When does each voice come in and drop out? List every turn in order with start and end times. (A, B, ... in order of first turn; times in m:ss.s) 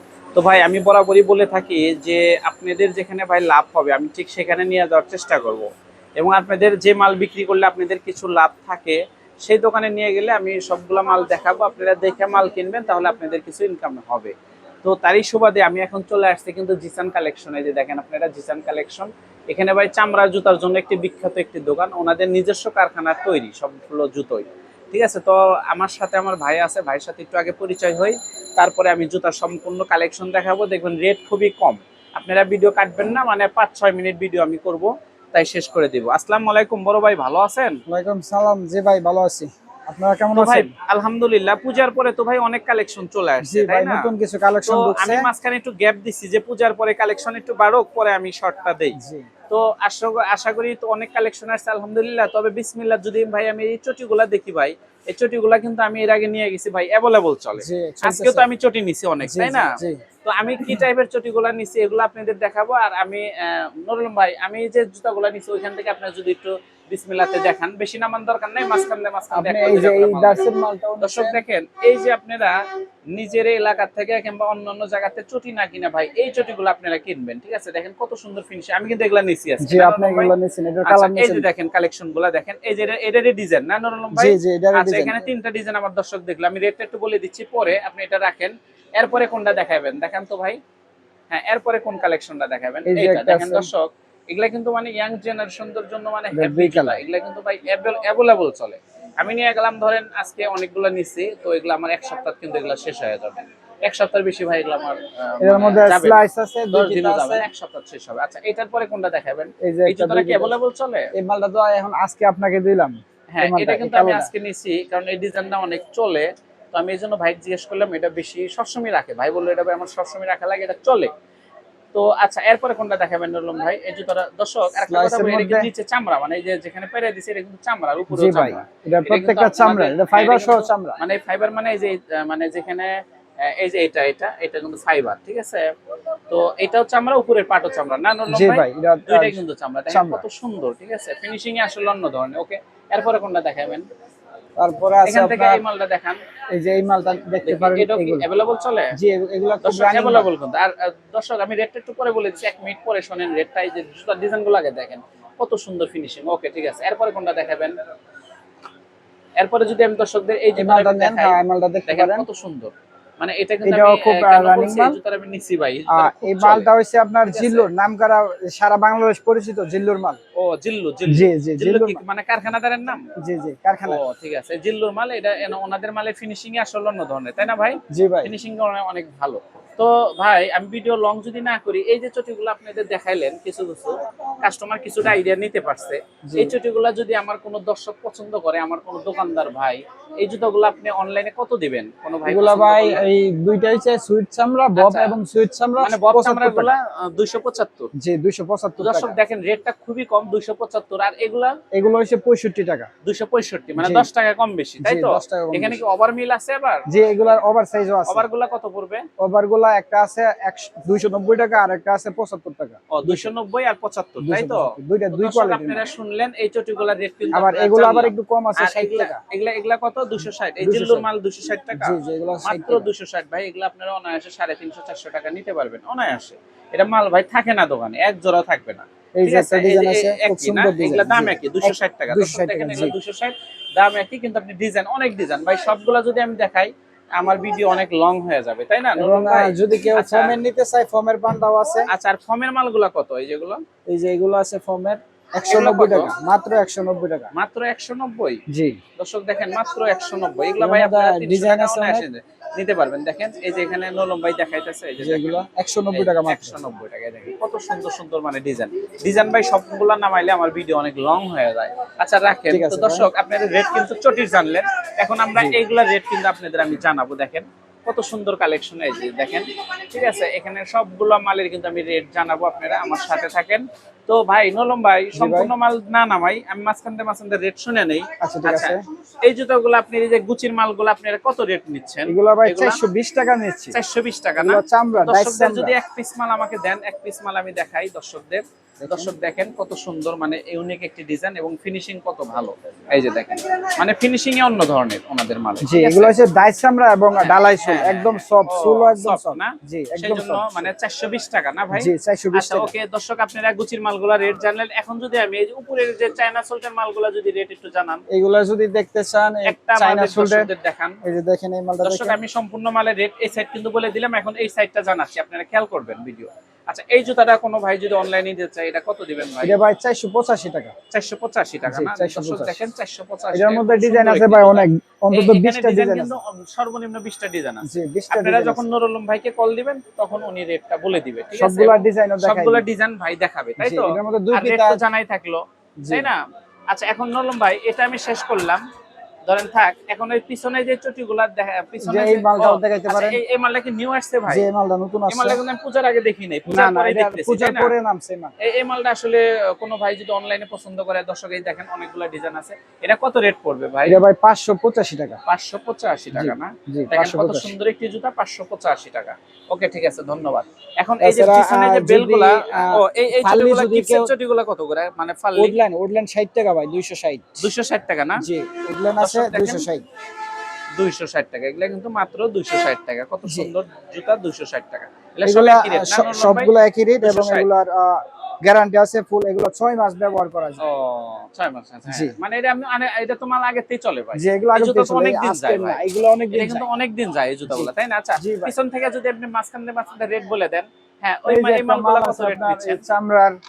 0:00.4-0:37.8 A
0:37.9-0:40.7 B
0:40.4-0:44.1 A
0:43.4-0:45.3 B
0:44.6-0:49.0 A
0:49.0-0:49.3 B
0:49.5-1:10.4 A
0:57.6-0:58.5 B
0:59.2-1:00.0 B
1:09.3-1:11.4 B
1:11.0-1:12.6 A
1:13.1-1:20.3 A
1:19.6-1:21.5 B
1:20.8-1:30.6 A
1:24.2-1:25.3 B
1:31.3-1:46.2 A
1:32.9-1:33.7 B
1:36.3-1:37.0 B
1:45.4-1:47.5 B
1:46.7-1:51.1 A
1:49.6-1:50.5 B
1:51.2-1:54.3 B
1:53.3-2:01.1 A
2:01.9-2:12.9 A
2:04.9-2:05.7 B
2:08.1-2:11.0 B
2:13.4-2:15.7 A
2:16.3-2:23.9 A
2:18.3-2:20.2 B
2:24.6-2:25.6 B
2:25.0-2:26.2 A
2:26.5-2:28.3 B
2:27.4-2:29.0 A
2:29.0-2:30.3 B
2:29.6-2:37.7 A
2:39.4-2:46.7 A
2:40.6-2:42.3 B
2:43.6-2:45.0 B
2:45.9-2:50.2 B
2:47.2-2:47.7 A
2:50.4-2:53.0 A
2:51.1-2:52.0 B
2:53.2-2:54.0 B
2:53.9-3:13.0 A
2:57.9-2:58.3 B
3:06.3-3:06.6 B
3:12.2-3:16.7 B
3:14.8-3:15.2 A
3:15.8-3:17.9 A
3:18.0-3:19.2 B
3:18.8-3:21.5 A
3:21.7-3:22.9 B
3:23.0-3:26.8 A
3:23.8-3:24.1 B
3:24.8-3:25.8 B
3:26.9-3:28.3 B
3:28.1-3:29.0 A
3:29.2-3:33.3 B
3:32.9-4:00.4 A
3:34.2-3:35.9 B
3:37.3-3:39.2 B
3:40.6-3:41.1 B
3:41.8-3:42.9 B
3:49.2-3:53.0 B
3:59.0-4:01.9 B
4:01.9-4:03.6 A
4:03.9-4:07.3 B
4:05.5-4:06.1 A
4:07.3-4:08.4 A
4:08.5-4:08.8 B
4:09.0-4:42.8 A
4:10.6-4:12.1 B
4:15.0-4:16.6 B
4:22.5-4:23.1 B
4:25.4-4:25.6 B
4:35.2-4:35.5 B
4:38.2-4:38.8 B
4:42.1-4:43.8 B
4:43.7-4:56.1 A
4:44.4-4:45.8 B
4:48.8-4:49.1 B
4:55.6-5:00.7 B
4:57.2-5:08.0 A
5:01.7-5:02.7 B
5:08.1-5:10.5 B
5:09.4-5:11.0 A
5:11.0-5:12.2 B
5:11.8-5:19.6 A
5:19.4-5:20.7 B
5:20.9-5:38.6 A
5:21.7-5:22.6 B
5:23.3-5:26.1 B
5:27.6-5:28.6 B
5:31.4-5:32.6 B
5:33.6-5:34.8 B
5:35.8-5:36.1 B
5:39.3-5:44.5 A
5:41.8-5:43.2 B
5:44.3-5:45.4 B
5:45.1-5:47.7 A
5:46.5-5:48.3 B
5:48.4-5:54.0 A
5:53.9-5:55.2 B
5:55.3-6:05.6 A
5:56.1-5:57.5 B
6:01.0-6:04.1 B
6:05.4-6:07.4 B
6:07.4-6:08.2 A
6:08.2-6:09.8 B
6:09.0-6:09.7 A
6:10.8-6:17.5 A
6:13.3-6:13.5 B
6:15.2-6:20.6 B
6:20.6-6:32.8 A
6:21.9-6:22.2 B
6:24.2-6:26.6 B
6:27.5-6:28.5 B
6:31.3-6:33.3 B